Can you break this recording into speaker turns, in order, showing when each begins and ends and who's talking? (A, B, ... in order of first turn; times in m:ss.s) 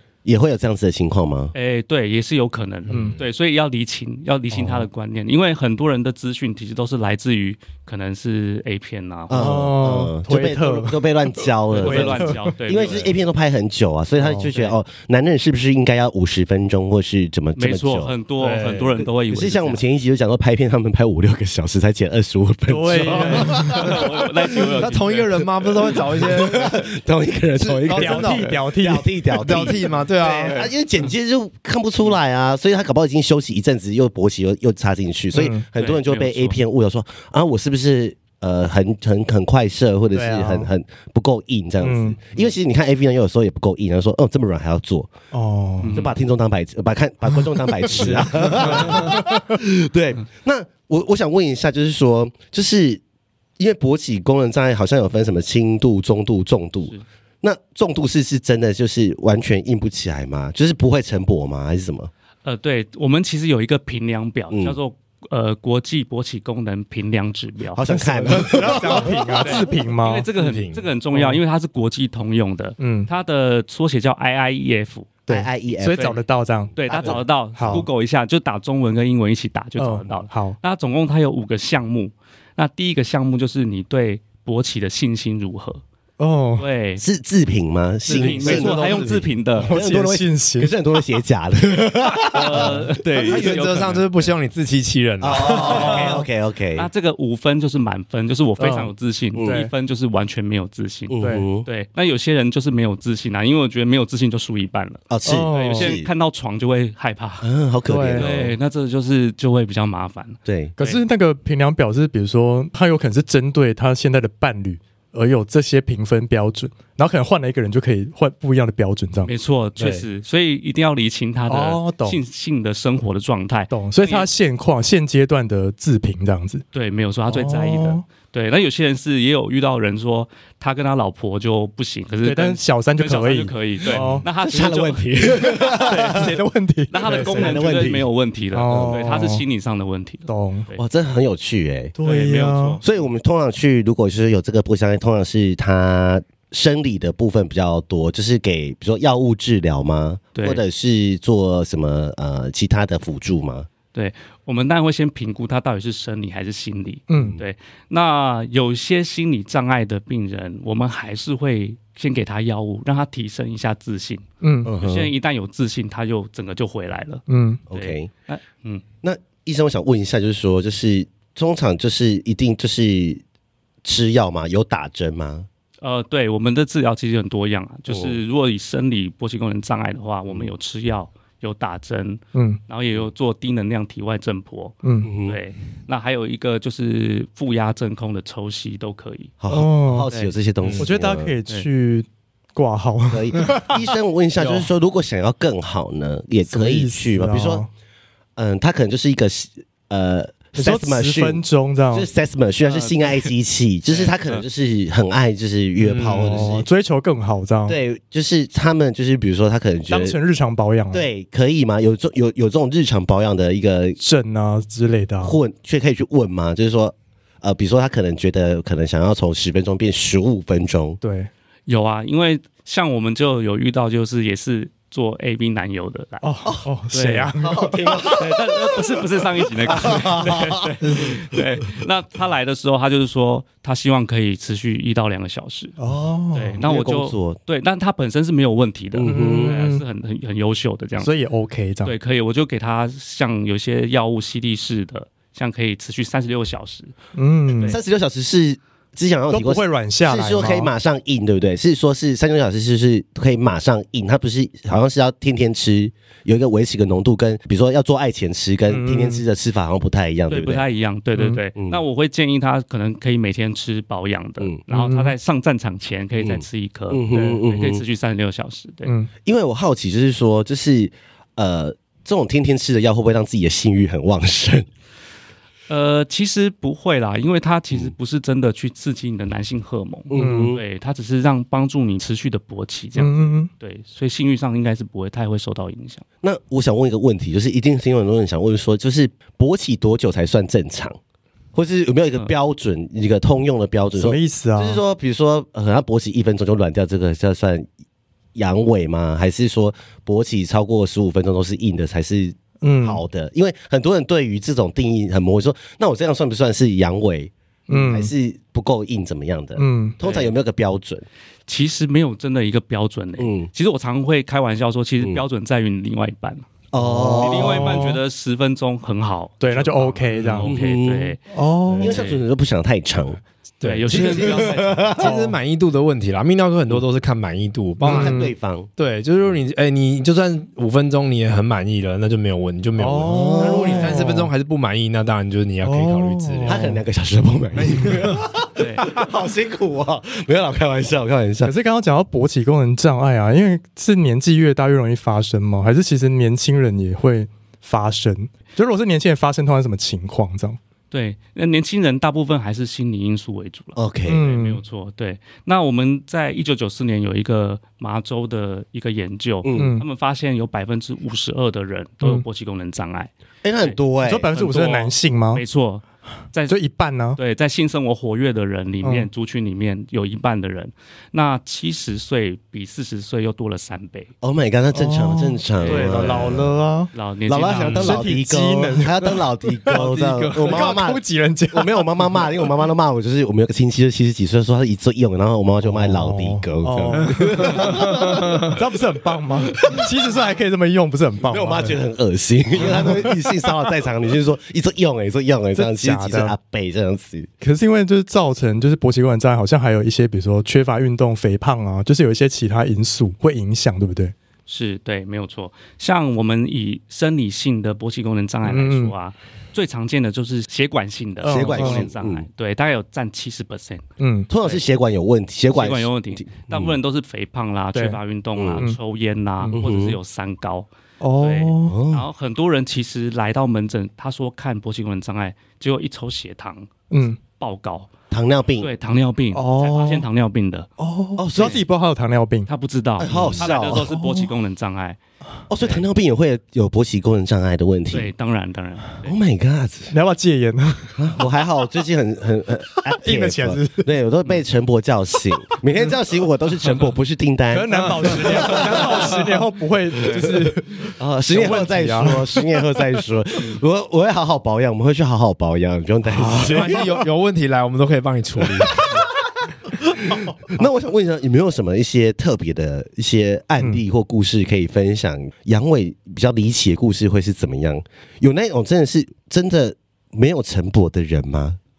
0:00.2-0:01.5 A
0:01.5-0:09.7 B
0:02.9-0:03.2 C
0:02.9-0:03.2 D
0:04.5-0:04.8 D
0:09.3-0:18.1 A
0:09.3-0:11.0 D
0:11.7-0:13.1 B
0:11.8-0:12.6 D
0:14.2-0:14.5 D
0:14.5-0:14.8 B
0:17.6-0:19.8 B
0:18.4-0:19.0 C
0:19.3-0:24.8 A
0:22.7-0:23.9 D
0:23.0-0:25.3 B
0:24.6-0:26.8 C
0:26.0-0:45.1 A
0:27.6-0:28.5 C
0:27.9-0:30.6 D
0:29.4-0:30.7 C
0:35.3-0:35.6 D
0:35.8-0:36.6 B
0:40.1-0:40.7 D
0:41.8-0:42.2 D
0:45.3-0:46.0 D
0:45.8-0:46.1 B
0:45.9-0:53.0 A
0:47.9-0:49.5 D
0:53.6-1:02.1 A
1:02.4-1:07.8 B
1:04.5-1:04.8 A
1:07.7-1:09.6 A
1:07.9-1:10.3 D
1:09.4-1:15.2 B
1:10.4-1:10.8 C
1:11.1-1:11.4 D
1:12.8-1:13.1 D
1:15.3-1:17.9 D
1:15.3-1:16.1 A
1:16.8-1:25.8 B
1:16.8-1:17.8 A
1:19.8-1:20.6 D
1:26.2-1:26.6 D
1:26.6-1:27.0 B
1:27.0-1:32.9 A
1:28.0-1:29.0 C
1:28.1-1:29.7 B
1:29.6-1:30.8 D
1:32.3-1:34.3 B
1:32.5-1:36.2 C
1:35.2-1:36.9 A
1:35.7-1:36.2 D
1:35.7-1:36.0 B
1:36.8-1:47.5 B
1:38.6-1:39.7 D
1:39.3-1:39.6 A
1:41.1-1:41.7 A
1:41.2-1:41.4 D
1:45.1-1:46.1 A
1:45.2-1:46.0 D
1:47.4-1:48.5 A
1:47.9-1:48.3 D
1:48.2-1:51.0 B
1:50.4-1:50.7 A
1:50.8-1:59.3 D
1:59.2-2:04.3 B
1:59.8-2:00.0 C
2:01.5-2:02.2 D
2:03.7-2:06.6 D
2:06.7-2:20.8 B
2:07.3-2:08.0 D
2:12.2-2:14.3 D
2:13.9-2:16.4 A
2:15.9-2:17.6 D
2:17.0-2:18.1 A
2:18.5-2:19.4 D
2:18.7-2:19.0 A
2:20.3-2:20.7 D
2:20.8-2:22.0 A
2:22.0-2:22.8 D
2:22.0-2:22.8 B
2:22.8-2:33.7 A
2:30.4-2:30.6 B
2:33.9-2:44.2 B
2:37.1-2:37.4 D
2:44.4-2:44.7 D
2:44.6-2:45.1 A
2:44.8-2:48.8 B
2:47.3-2:47.6 D
2:47.7-2:48.1 A
2:49.0-2:53.2 A
2:53.8-2:55.5 A
2:55.8-3:09.3 B
2:57.9-2:58.2 A
3:02.3-3:02.6 D
3:04.8-3:05.1 D
3:05.0-3:05.4 A
3:09.4-3:11.3 A
3:09.5-3:10.1 D
3:10.6-3:10.9 C
3:10.8-3:14.7 D
3:13.1-3:17.6 A
3:16.5-3:17.7 D
3:18.4-3:26.6 A
3:20.6-3:22.1 D
3:22.6-3:23.1 B
3:23.9-3:24.4 B
3:25.8-3:26.4 C
3:26.1-3:27.8 D
3:27.7-3:30.2 A
3:29.9-3:31.0 D
3:30.9-3:34.0 A
3:34.0-3:35.4 D
3:35.2-3:41.0 A
3:41.0-3:41.3 D
3:41.7-3:46.2 B
3:46.2-3:48.1 D
3:46.9-3:47.3 B
3:47.4-3:51.4 A
3:48.1-3:55.7 B
3:55.8-3:56.6 D
3:56.3-4:01.1 B
3:56.6-3:57.4 A
3:58.9-3:59.6 A
3:59.0-3:59.8 D
4:01.0-4:01.9 D
4:01.8-4:06.9 B
4:07.2-4:07.8 D
4:07.6-4:20.6 A
4:09.3-4:10.7 D
4:18.7-4:19.2 D
4:20.3-4:28.9 B
4:24.7-4:25.1 D
4:26.2-4:27.8 A
4:28.8-4:29.1 D
4:29.2-4:34.7 A
4:35.7-4:46.0 B
4:40.1-4:40.6 A
4:40.1-4:40.5 D
4:43.0-4:43.5 D
4:46.2-4:51.0 A
4:51.5-4:57.7 A
4:53.9-4:54.8 D
4:58.3-5:11.0 A
5:02.6-5:03.0 D
5:07.7-5:08.1 D
5:09.6-5:10.0 D
5:10.0-5:10.3 B
5:11.5-5:16.4 B
5:13.2-5:13.5 A
5:16.7-5:17.9 A
5:16.8-5:17.2 C
5:17.2-5:21.2 B
5:17.2-5:18.0 D
5:19.4-5:20.5 D
5:20.4-5:21.2 A
5:21.3-5:22.0 D
5:21.8-5:23.2 A
5:21.8-5:22.2 B
5:23.6-5:36.7 C
5:23.6-5:24.9 B
5:23.9-5:25.1 A
5:25.0-5:25.4 D
5:27.8-5:28.3 D
5:27.8-5:28.7 A
5:32.8-5:34.3 D
5:33.1-5:34.2 A
5:35.6-5:36.8 D
5:36.4-5:41.5 A
5:37.7-5:38.1 C
5:38.6-5:38.8 B
5:41.4-5:50.6 D
5:50.9-6:03.8 B
5:53.8-5:54.2 A
5:54.1-5:54.6 D
5:59.4-5:59.8 A
5:59.5-5:59.8 D
6:03.4-6:04.3 A
6:04.0-6:05.4 D
6:04.3-6:06.5 B
6:06.5-6:07.2 D
6:07.2-6:14.1 B
6:08.8-6:09.1 D
6:14.2-6:16.6 A
6:14.7-6:16.9 D
6:15.6-6:16.4 B
6:16.9-6:18.0 B
6:17.3-6:28.5 A
6:17.6-6:17.9 C
6:17.8-6:19.1 D
6:19.6-6:20.7 C
6:20.4-6:21.9 D
6:25.6-6:31.8 D
6:27.5-6:28.4 C
6:29.6-6:29.9 A
6:31.3-6:37.3 A
6:35.5-6:36.3 D
6:37.4-6:44.1 D
6:44.5-6:53.8 B
6:48.4-6:48.9 D
6:51.2-6:51.9 D
6:51.2-6:52.2 A
6:54.0-6:54.3 D
6:54.3-6:56.7 A
6:55.5-7:00.7 B
6:58.4-6:58.6 A
6:59.5-7:00.0 A
7:01.0-7:01.8 D
7:01.2-7:07.9 B
7:01.7-7:02.0 A
7:06.9-7:07.2 D
7:08.1-7:08.7 A
7:08.6-7:10.7 B
7:09.3-7:10.0 D
7:10.8-7:12.5 D
7:11.2-7:11.6 A
7:11.3-7:11.6 B
7:12.5-7:15.0 B
7:13.0-7:13.9 A
7:13.2-7:14.3 D
7:15.5-7:18.1 A
7:17.9-7:19.1 B
7:19.0-7:19.9 A
7:19.9-7:21.0 D
7:21.0-7:29.2 A
7:22.9-7:23.9 D
7:27.5-7:32.4 D
7:30.0-7:36.9 A
7:36.1-7:37.0 D
7:36.4-7:39.0 C
7:39.6-7:51.6 A